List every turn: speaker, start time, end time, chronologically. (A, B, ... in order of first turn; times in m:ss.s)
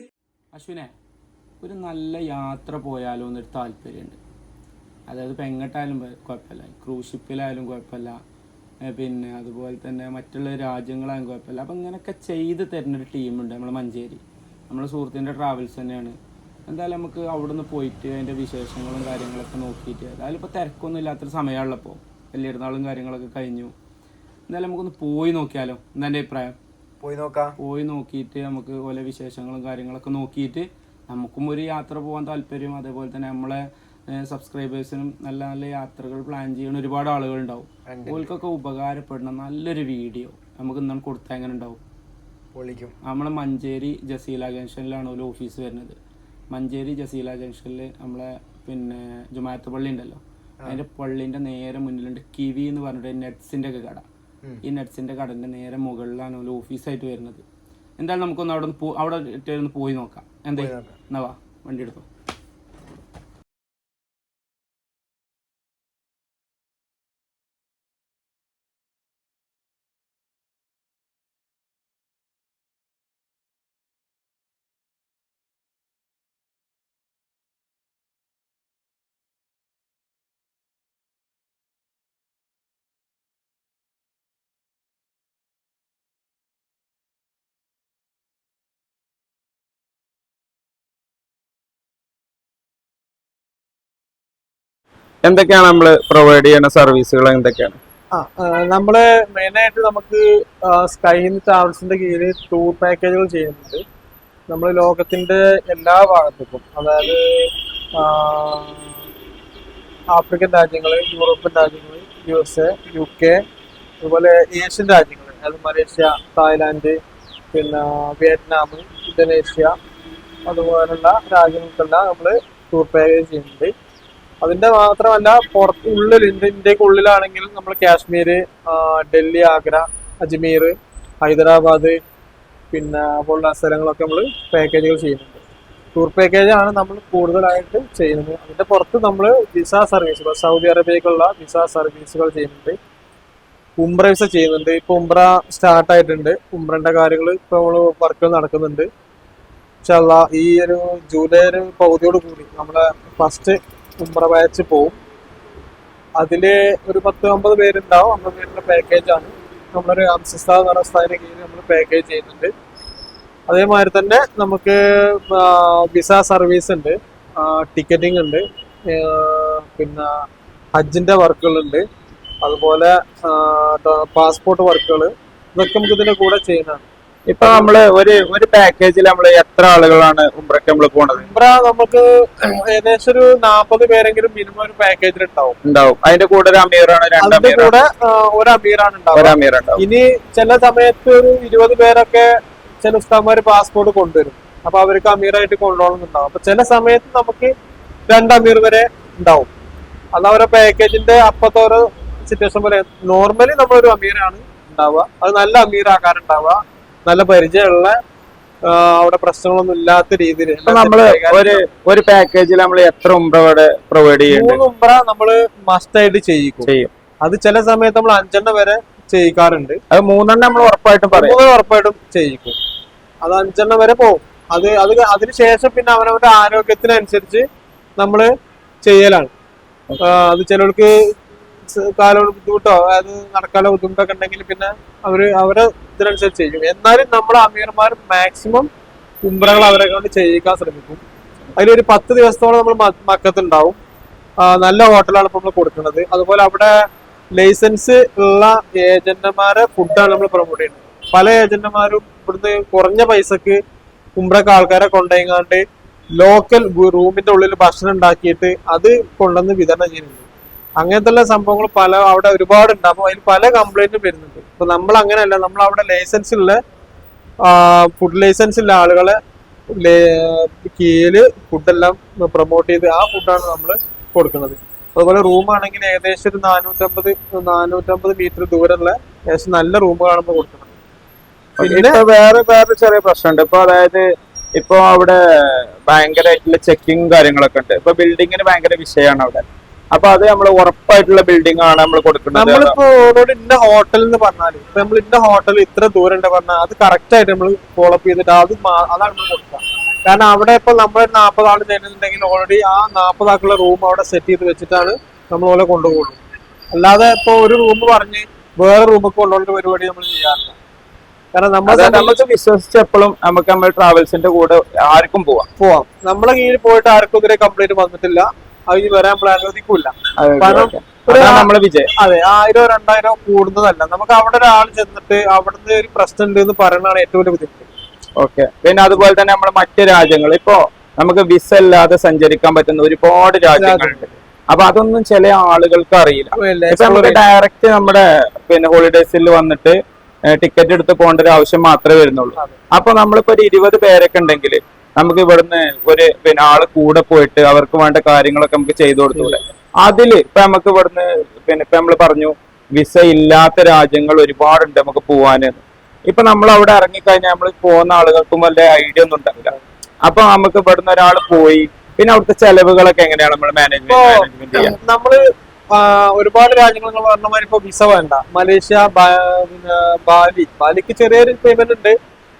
0:00.5-0:00.9 A
0:01.6-0:04.2 A
0:05.1-0:08.2 A
0:08.9-0:16.1 A
0:16.7-0:23.7 A
0:24.5-0:26.6 A
0:27.0-0:27.6 B
0:27.6-0:41.8 A
0:37.8-0:38.3 B
0:42.5-0:42.9 B
0:43.0-0:46.0 A
0:46.5-0:54.0 A
0:54.6-0:57.4 A
0:58.0-1:02.0 A
1:00.5-1:01.0 B
1:35.2-1:37.8 C
1:38.1-1:43.8 D
1:44.5-1:49.1 D
1:50.1-1:53.4 D
1:54.0-1:57.0 D
1:57.5-1:59.7 D
2:00.5-2:03.7 D
2:04.4-2:12.0 D
2:12.7-2:15.4 D
2:15.9-2:22.8 D
2:23.8-2:28.9 D
2:29.8-2:35.0 D
2:36.2-2:42.5 D
2:43.5-2:50.1 D
2:50.7-2:51.8 D
2:52.4-2:56.8 D
2:57.3-3:01.3 C
2:57.4-2:57.7 D
3:01.2-3:05.6 D
3:05.6-3:07.7 C
3:07.2-3:12.3 D
3:09.1-3:09.8 C
3:12.8-3:17.5 D
3:18.1-3:19.5 D
3:20.1-3:28.0 D
3:28.6-3:31.6 D
3:30.6-3:34.6 C
3:34.3-3:36.7 D
3:36.6-3:36.9 C
3:37.2-3:39.8 D
3:39.9-3:41.4 C
3:41.1-3:42.6 D
3:43.2-3:47.4 D
3:48.0-3:48.3 D
3:48.8-3:49.3 D
3:50.0-3:50.9 D
3:51.7-3:58.7 D
3:59.2-4:01.0 D
4:01.6-4:03.8 D
4:04.4-4:06.7 D
4:07.3-4:13.6 D
4:14.2-4:15.6 D
4:16.2-4:20.3 D
4:20.8-4:26.6 D
4:27.4-4:29.2 D
4:29.8-4:40.8 D
4:41.6-4:44.0 C
4:41.6-4:42.0 D
4:44.6-4:52.8 C
4:52.3-5:06.2 D
5:06.7-5:10.6 D
5:11.3-5:12.2 D
5:11.6-5:15.5 C
5:15.6-5:27.7 D
5:20.2-5:21.9 C
5:28.2-5:39.8 C
5:33.5-5:34.1 D
5:36.4-5:37.2 D
5:40.3-6:04.7 C
6:03.8-6:11.9 D